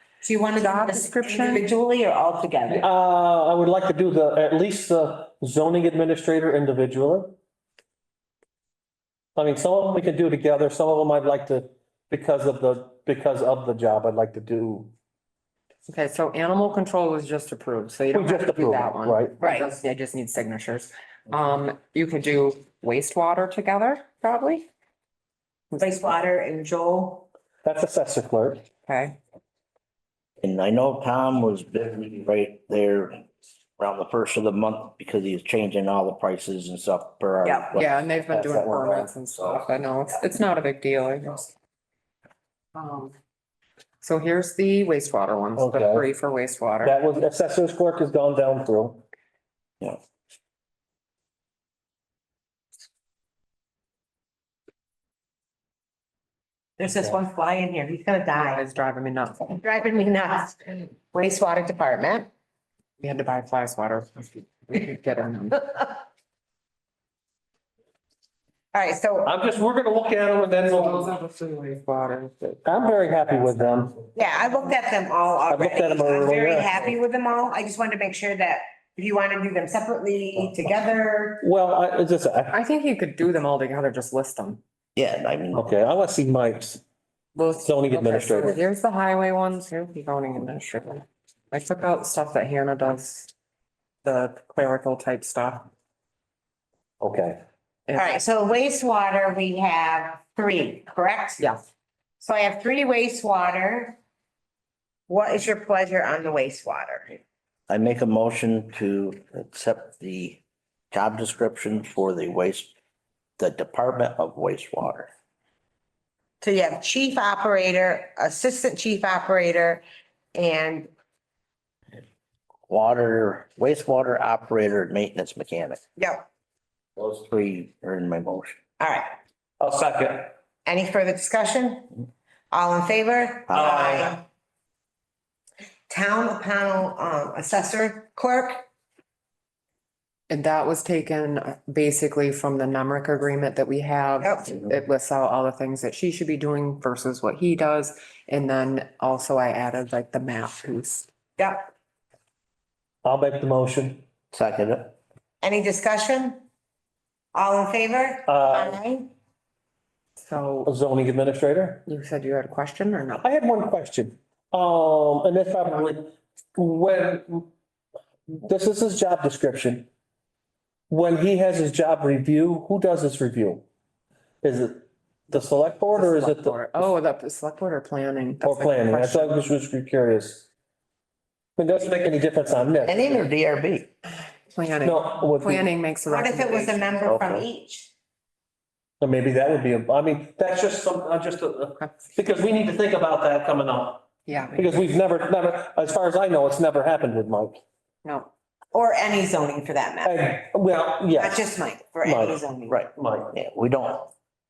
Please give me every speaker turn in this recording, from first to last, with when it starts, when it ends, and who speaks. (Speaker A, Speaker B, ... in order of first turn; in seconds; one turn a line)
Speaker A: 0.2-2.8
Speaker B: 0.5-1.6
Speaker C: 2.7-7.3
Speaker C: 9.3-14.9
Speaker B: 15.8-24.7
Speaker C: 18.1-19.3
Speaker A: 19.4-19.7
Speaker A: 25.8-27.3
Speaker C: 27.6-28.6
Speaker B: 28.9-29.2
Speaker D: 30.4-33.3
Speaker D: 33.8-39.6
Speaker B: 37.5-41.5
Speaker B: 42.7-43.1
Speaker B: 44.0-47.0
Speaker C: 45.5-46.0
Speaker C: 46.8-49.0
Speaker A: 56.8-58.6
Speaker B: 58.4-59.6
Speaker A: 59.5-62.3
Speaker B: 63.0-65.7
Speaker A: 68.7-69.3
Speaker C: 69.2-71.1
Speaker B: 70.6-73.9
Speaker C: 72.6-74.0
Speaker A: 74.1-81.4
Speaker C: 75.5-76.8
Speaker C: 81.4-82.6
Speaker B: 82.5-84.6
Speaker D: 84.9-85.6
Speaker C: 85.5-86.8
Speaker B: 87.3-93.3
Speaker C: 87.6-88.6
Speaker B: 94.0-95.7
Speaker C: 97.0-97.4
Speaker B: 97.9-98.2
Speaker A: 97.9-101.4
Speaker A: 102.2-104.0
Speaker A: 105.1-107.2
Speaker D: 107.7-110.4
Speaker D: 110.9-112.7
Speaker D: 113.4-115.1
Speaker A: 116.4-119.8
Speaker A: 120.3-120.9
Speaker D: 122.7-125.8
Speaker A: 126.0-126.2
Speaker D: 127.0-128.6
Speaker A: 128.8-129.2
Speaker C: 129.6-130.3
Speaker A: 130.6-131.9
Speaker A: 132.5-134.2
Speaker D: 133.5-133.8
Speaker C: 133.5-134.2
Speaker A: 135.9-138.7
Speaker B: 140.3-151.1
Speaker A: 144.2-144.5
Speaker A: 151.4-151.7
Speaker C: 153.0-154.0
Speaker D: 154.3-154.9
Speaker A: 155.4-156.4
Speaker A: 157.3-159.1
Speaker C: 158.3-158.8
Speaker B: 160.2-160.7
Speaker C: 160.7-161.8
Speaker B: 161.8-163.3
Speaker C: 163.2-167.5
Speaker C: 168.3-169.9
Speaker C: 170.9-173.6
Speaker C: 174.4-176.8
Speaker B: 175.9-179.4
Speaker C: 178.4-180.5
Speaker C: 181.6-183.2
Speaker D: 182.8-183.9
Speaker B: 184.5-187.0
Speaker C: 184.8-185.7
Speaker A: 186.1-187.9
Speaker D: 187.1-187.4
Speaker C: 189.0-197.6
Speaker B: 194.3-194.8
Speaker B: 198.0-198.3
Speaker A: 198.7-200.2
Speaker C: 200.0-202.4
Speaker A: 201.1-202.8
Speaker D: 202.7-204.1
Speaker C: 202.9-203.3